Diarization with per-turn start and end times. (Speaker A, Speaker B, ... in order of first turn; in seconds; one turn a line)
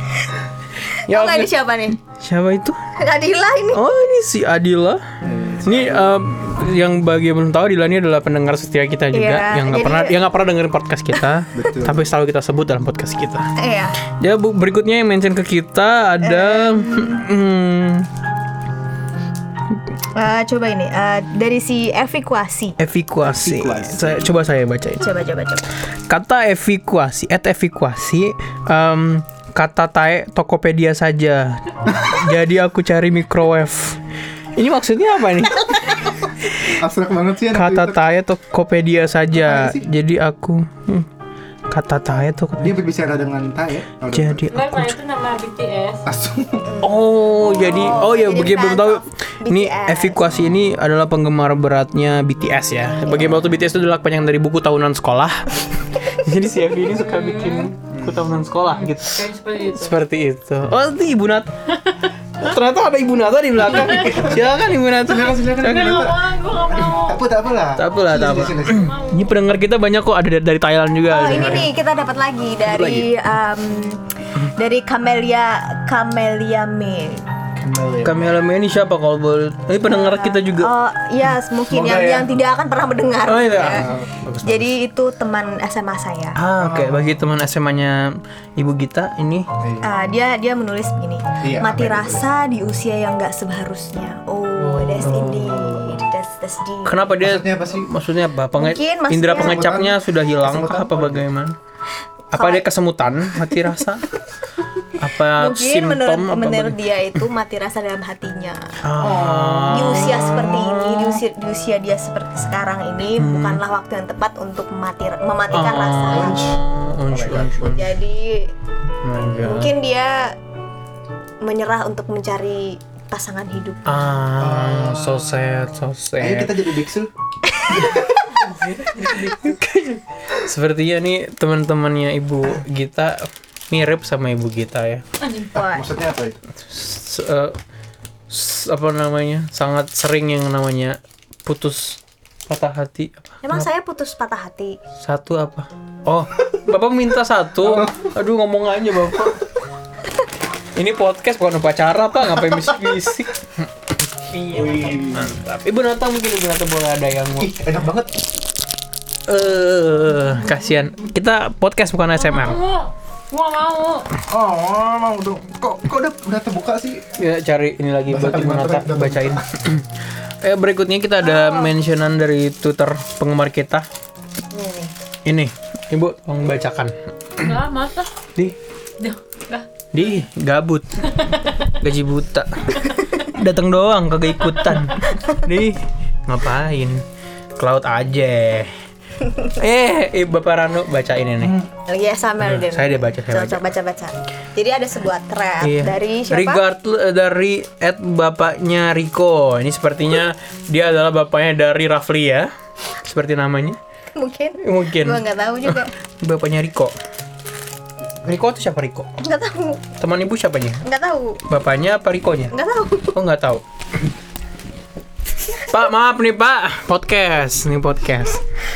Speaker A: 0.9-2.0
Speaker B: 1.1-2.9
Speaker A: 3.0-3.8
Speaker B: 3.7-5.0
Speaker C: 5.2-6.2
Speaker B: 5.7-13.5
Speaker A: 9.1-10.2
Speaker C: 11.5-12.1
Speaker A: 13.6-14.0
Speaker B: 14.1-18.1
Speaker A: 16.2-17.2
Speaker A: 20.1-22.8
Speaker B: 22.8-25.1
Speaker C: 23.2-24.4
Speaker A: 25.0-25.7
Speaker B: 26.1-34.0
Speaker B: 34.6-36.5
Speaker C: 36.7-38.0
Speaker B: 37.5-41.1
Speaker C: 39.3-39.9
Speaker B: 41.7-42.8
Speaker C: 42.6-44.5
Speaker B: 44.1-45.0
Speaker D: 44.5-46.0
Speaker C: 46.1-46.7
Speaker A: 46.6-50.5
Speaker B: 46.8-61.6
Speaker D: 56.9-57.7
Speaker C: 57.9-58.3
Speaker D: 58.7-60.0
Speaker B: 62.4-66.1
Speaker C: 63.5-68.9
Speaker D: 63.7-64.3
Speaker D: 65.3-67.3
Speaker B: 67.8-71.7
Speaker D: 68.7-69.4
Speaker A: 71.1-77.2
Speaker C: 71.2-71.7
Speaker B: 72.7-73.1
Speaker C: 77.5-78.5
Speaker B: 78.0-80.7
Speaker A: 79.8-83.9
Speaker C: 81.7-82.3
Speaker B: 83.3-84.7
Speaker C: 83.5-84.2
Speaker A: 84.4-86.4
Speaker B: 86.4-89.5
Speaker C: 86.6-87.0
Speaker C: 89.6-89.9
Speaker A: 89.8-97.1
Speaker C: 91.4-92.2
Speaker C: 94.6-96.0
Speaker B: 94.9-95.5
Speaker B: 96.8-101.6
Speaker C: 97.2-97.9
Speaker A: 98.5-99.7
Speaker C: 99.3-101.3
Speaker B: 102.3-104.1
Speaker A: 102.3-102.7
Speaker B: 105.0-106.8
Speaker A: 105.3-116.6
Speaker B: 108.8-111.2
Speaker C: 109.1-109.4
Speaker B: 113.2-113.6
Speaker B: 115.5-118.0
Speaker C: 116.1-117.8
Speaker A: 117.6-118.5
Speaker B: 119.0-119.7
Speaker A: 119.4-120.4
Speaker A: 121.4-123.9
Speaker B: 123.9-126.6
Speaker C: 124.4-125.4
Speaker C: 126.2-127.1
Speaker A: 127.5-128.0
Speaker C: 127.7-128.4
Speaker B: 128.5-135.0
Speaker D: 128.5-129.2
Speaker D: 135.2-135.5
Speaker A: 135.5-135.9
Speaker C: 135.6-136.4
Speaker B: 136.6-137.6
Speaker B: 138.3-143.7
Speaker A: 143.4-144.8
Speaker B: 145.0-149.4
Speaker C: 147.6-148.0
Speaker B: 150.8-153.7
Speaker D: 154.3-155.1
Speaker B: 154.4-157.5
Speaker C: 154.5-155.3
Speaker C: 157.4-158.2
Speaker B: 159.3-162.6
Speaker D: 162.2-164.1
Speaker C: 164.3-167.1
Speaker B: 167.2-169.9
Speaker C: 168.1-169.6
Speaker B: 170.4-173.9
Speaker A: 171.3-171.7
Speaker A: 174.5-174.9
Speaker B: 175.2-177.6
Speaker D: 177.4-178.1
Speaker D: 179.0-179.7
Speaker B: 179.9-187.0
Speaker D: 181.1-181.6
Speaker B: 187.6-188.7
Speaker B: 189.4-191.6
Speaker C: 191.4-191.7
Speaker A: 191.9-196.6
Speaker B: 192.4-193.7
Speaker B: 195.6-202.5
Speaker B: 203.0-203.8
Speaker A: 204.2-205.9
Speaker B: 204.6-206.9
Speaker B: 208.2-209.1
Speaker A: 209.2-209.8
Speaker B: 210.0-210.8
Speaker A: 210.8-211.4
Speaker B: 211.5-212.5
Speaker A: 212.5-213.2
Speaker B: 213.1-214.1
Speaker B: 215.6-218.4